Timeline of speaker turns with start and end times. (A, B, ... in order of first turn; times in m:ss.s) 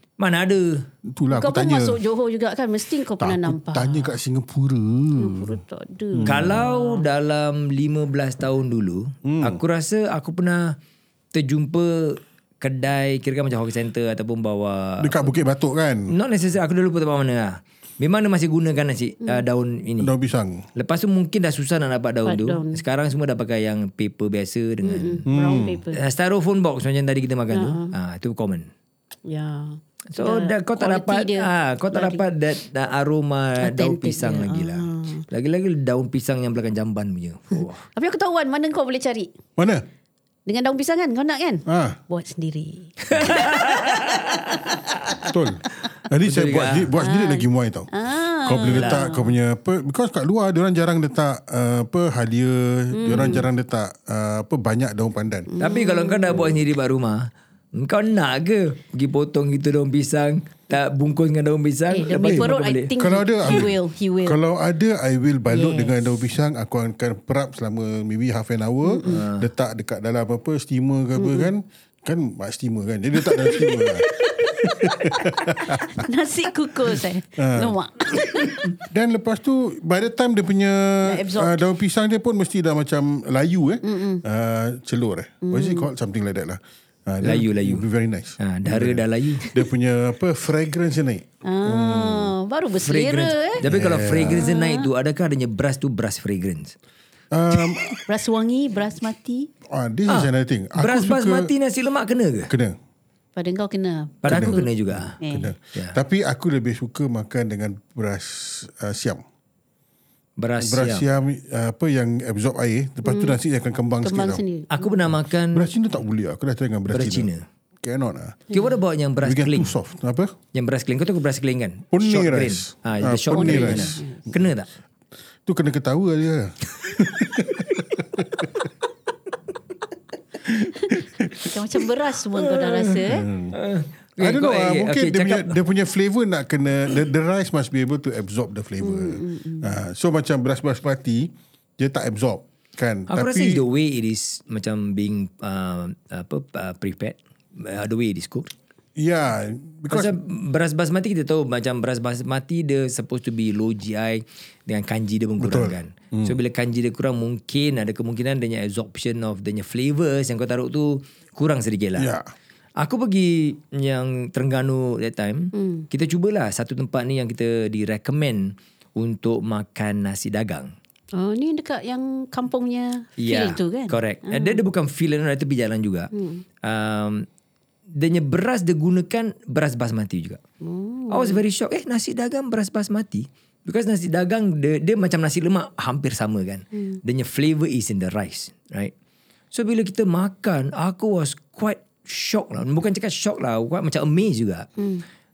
0:00.2-0:00.8 A
0:01.1-0:02.0 B
0:01.3-0:04.2 C
0:03.2-0:05.6 B
0:05.2-0:07.1 C
0:06.1-0:06.6 B
0:06.2-0:10.8 A
0:09.2-0:09.6 B
0:11.3-0:15.3 A
0:15.0-0:16.1 B
0:16.1-0:20.1 A
0:20.0-0:20.6 B
0:20.8-0:25.3 A
0:22.3-0:22.8 C
0:24.8-0:26.0 C
0:25.3-0:25.8 B
0:25.9-0:28.7 A
0:27.5-0:27.9 C
0:29.3-0:32.2 C
0:30.1-0:37.8 A
0:33.6-0:35.2 C
0:37.6-0:39.3 C
0:39.6-0:39.8 B
0:40.5-0:43.6 C
0:41.7-0:42.0 B
0:43.1-0:45.3 A
0:45.3-0:47.9 B
0:46.2-0:46.9 A
0:47.0-0:49.4 C
0:48.4-0:55.5 B
0:48.6-0:49.1 A
0:52.9-0:53.5 C
0:55.5-0:56.6 C
0:55.6-1:02.9 A
1:01.9-1:04.4 C
1:03.0-1:03.7 B
1:04.2-1:16.0 B
1:05.5-1:06.0 C
1:08.8-1:09.2 C
1:09.1-1:09.5 A
1:11.2-1:11.5 C
1:13.2-1:18.7 C
1:17.4-1:17.8 B
1:18.9-1:32.3 B
1:21.0-1:21.6 C
1:23.8-1:24.2 C
1:25.4-1:25.9 C
1:27.2-1:27.9 A
1:28.4-1:29.5 A
1:29.4-1:29.7 C
1:31.4-1:33.6 C
1:32.8-1:36.8 A
1:33.6-1:34.6 B
1:34.2-1:34.9 C
1:37.3-1:38.0 B
1:38.1-1:39.5 C
1:39.6-1:41.5 B
1:40.1-1:42.5 A
1:42.5-1:42.8 B
1:43.4-1:45.5 C
1:44.2-1:45.2 A
1:44.3-1:49.2 B
1:50.4-1:51.0 A
1:50.6-1:54.4 B
1:53.0-1:53.4 C
1:54.0-1:55.0 C
1:54.7-1:55.7 A
1:55.5-1:57.3 B
1:56.9-1:57.4 A
1:57.8-1:58.5 B
1:58.5-1:59.7 A
1:59.2-2:00.4 B
2:00.5-2:04.7 A
2:01.9-2:04.0 B
2:03.3-2:04.3 C
2:05.5-2:08.6 B
2:10.4-2:11.5 B
2:10.9-2:13.3 C
2:12.4-2:15.6 A
2:13.1-2:13.6 B
2:14.2-2:23.6 B
2:18.8-2:19.8 C
2:23.1-2:28.5 A
2:29.0-2:30.1 B
2:29.9-2:42.1 A
2:35.4-2:36.4 B
2:42.0-2:42.3 B
2:42.8-2:50.7 A
2:45.5-2:45.9 C
2:51.1-2:54.6 C
2:53.2-2:56.1 A
2:56.1-2:56.4 C
2:56.6-2:57.3 A
2:57.9-3:00.4 A
3:00.6-3:01.4 C
3:01.1-3:08.9 A
3:06.8-3:07.0 C
3:09.5-3:14.7 A
3:14.8-3:15.0 C